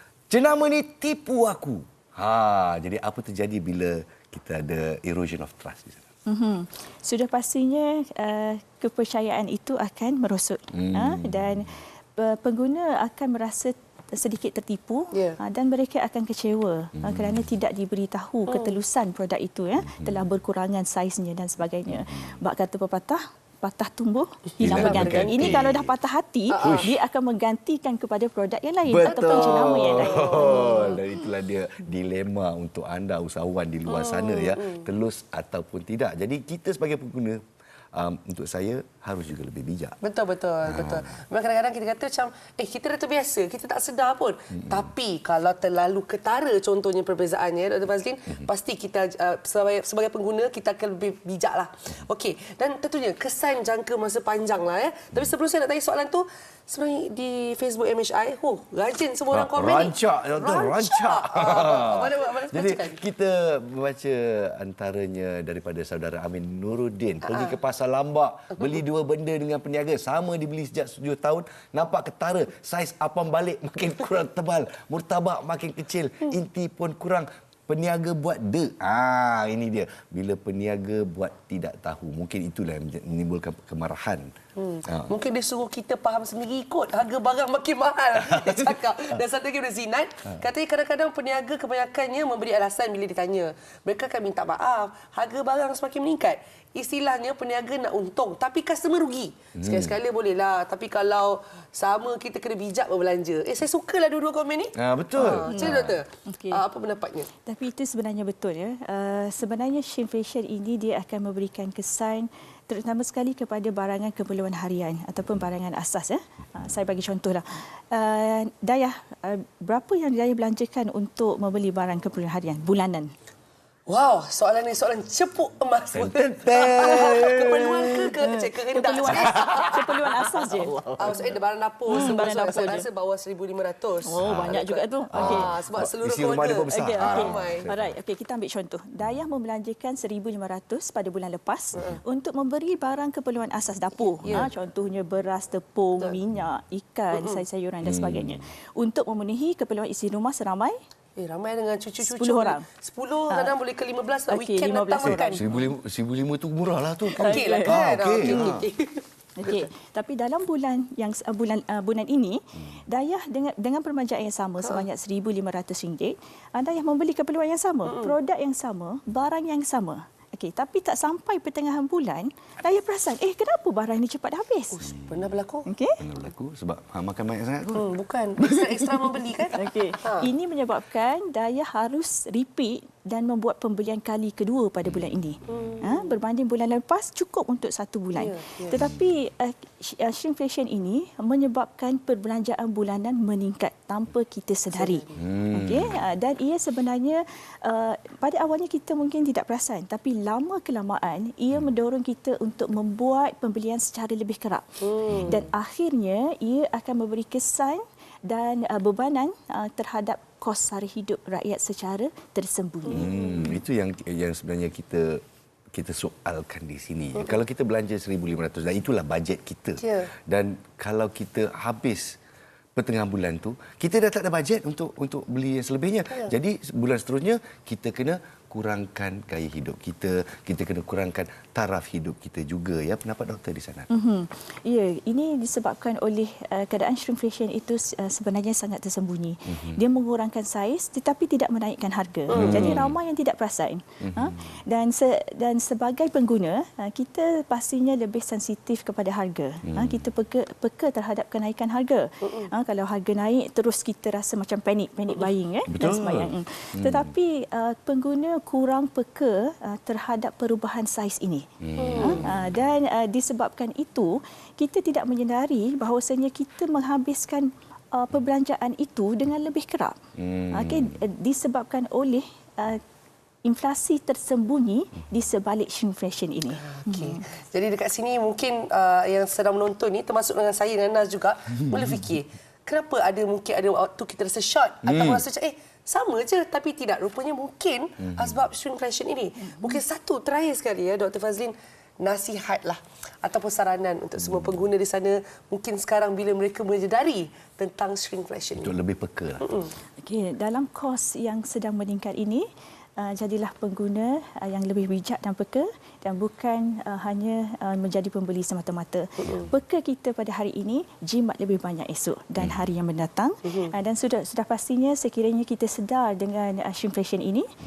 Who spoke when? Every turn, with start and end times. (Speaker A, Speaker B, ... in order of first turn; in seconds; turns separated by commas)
Speaker A: 0.3-6.0, Speaker B: 6.3-30.9, Speaker A: 10.7-11.6, Speaker A: 17.0-17.5, Speaker C: 18.5-18.8, Speaker A: 19.8-20.2, Speaker C: 24.6-25.7, Speaker A: 24.6-25.9, Speaker C: 26.5-26.9, Speaker A: 26.6-26.9, Speaker A: 28.9-37.4, Speaker C: 29.0-31.0, Speaker C: 33.9-34.9, Speaker A: 37.9-40.0, Speaker C: 40.0-63.0, Speaker A: 40.7-41.0, Speaker A: 59.3-84.3, Speaker C: 67.2-67.6, Speaker C: 84.6-107.3, Speaker A: 84.8-85.1, Speaker A: 99.6-99.9, Speaker A: 104.7-106.0, Speaker B: 105.5-106.6, Speaker B: 107.4-123.1, Speaker C: 123.9-129.9, Speaker A: 125.9-128.1, Speaker B: 128.2-130.8, Speaker A: 129.2-129.7, Speaker A: 130.5-131.4, Speaker C: 131.0-137.7, Speaker B: 131.9-132.8, Speaker A: 132.0-132.6, Speaker B: 134.1-135.5, Speaker A: 134.2-134.5, Speaker A: 135.1-137.9, Speaker B: 136.7-150.8, Speaker C: 144.2-144.5, Speaker C: 147.1-147.4, Speaker A: 147.8-148.4, Speaker C: 151.2-155.6, Speaker B: 152.0-152.6, Speaker B: 154.3-155.4, Speaker A: 155.0-158.7, Speaker C: 157.1-159.6, Speaker B: 157.2-158.5, Speaker B: 159.4-174.9, Speaker C: 167.9-168.1, Speaker C: 174.8-175.7, Speaker B: 175.7-176.0, Speaker A: 176.0-177.9, Speaker C: 177.7-180.3, Speaker B: 179.5-204.7, Speaker C: 185.5-185.9, Speaker C: 188.2-188.8, Speaker C: 194.7-195.2, Speaker A: 195.2-196.0, Speaker C: 204.8-205.4, Speaker A: 205.1-205.4, Speaker B: 205.2-213.1, Speaker C: 212.9-213.6, Speaker A: 212.9-215.2, Speaker A: 215.7-222.2, Speaker C: 219.8-220.1, Speaker A: 222.8-233.9, Speaker B: 233.9-270.0, Speaker A: 239.5-239.8, Speaker C: 242.3-242.8, Speaker A: 242.3-242.9, Speaker A: 244.0-244.4, Speaker A: 249.6-250.1, Speaker A: 255.7-257.1, Speaker A: 261.6-262.5, Speaker C: 261.8-262.3, Speaker A: 270.2-270.9, Speaker B: 270.5-272.8, Speaker B: 273.4-277.2, Speaker C: 276.6-298.7, Speaker A: 284.8-285.2, Speaker A: 294.2-294.6, Speaker A: 298.5-299.5, Speaker C: 299.4-299.7, Speaker B: 300.0-317.5, Speaker A: 312.4-312.6